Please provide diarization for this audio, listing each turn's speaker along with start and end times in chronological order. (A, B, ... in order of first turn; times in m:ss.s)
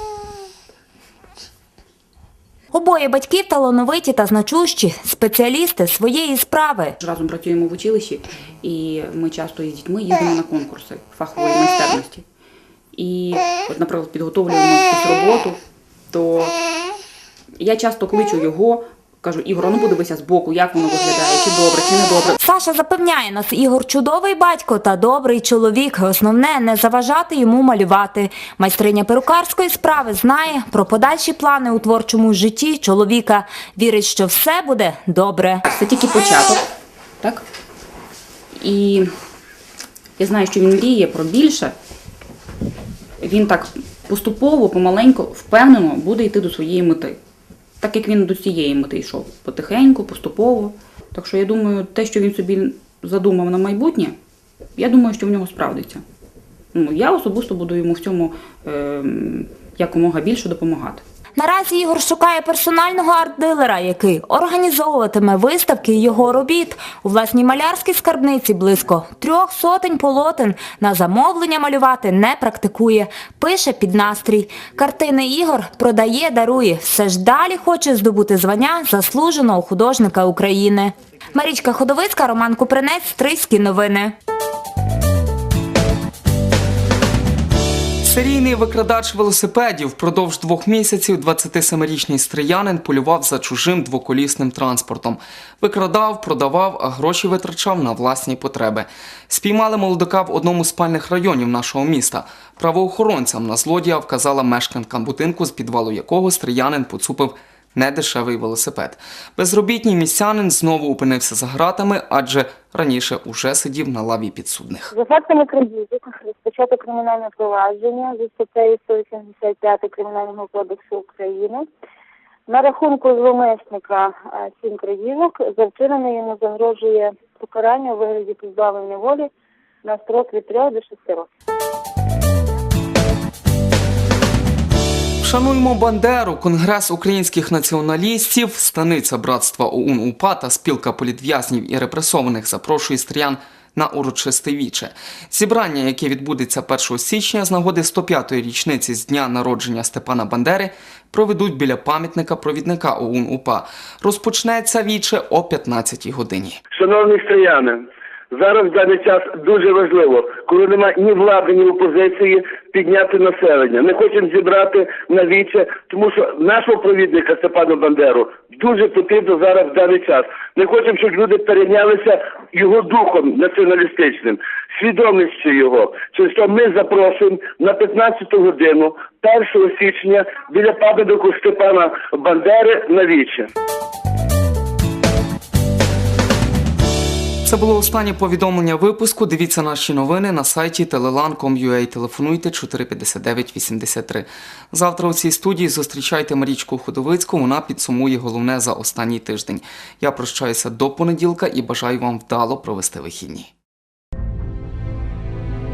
0:02.7-0:07.0 A
0:07.0-0:12.2 B
0:12.9-0:15.6 B
0:16.1-0:16.5 B
0:17.6-0:22.4 B
0:22.4-0:35.6 A
0:35.6-0:36.6 B
0:38.6-0:39.1 B
0:40.2-0:41.7 B
0:43.2-0:47.2 B
0:47.8-0:54.1 B
0:54.8-0:56.0 B
0:56.7-1:01.0 B
1:01.4-1:24.1 A
1:28.0-1:54.9 C
1:54.9-2:01.7 D
2:02.5-2:09.3 D
2:09.8-2:11.3 D
2:15.2-2:36.6 C
2:36.7-3:03.5 E
3:07.4-3:23.5 C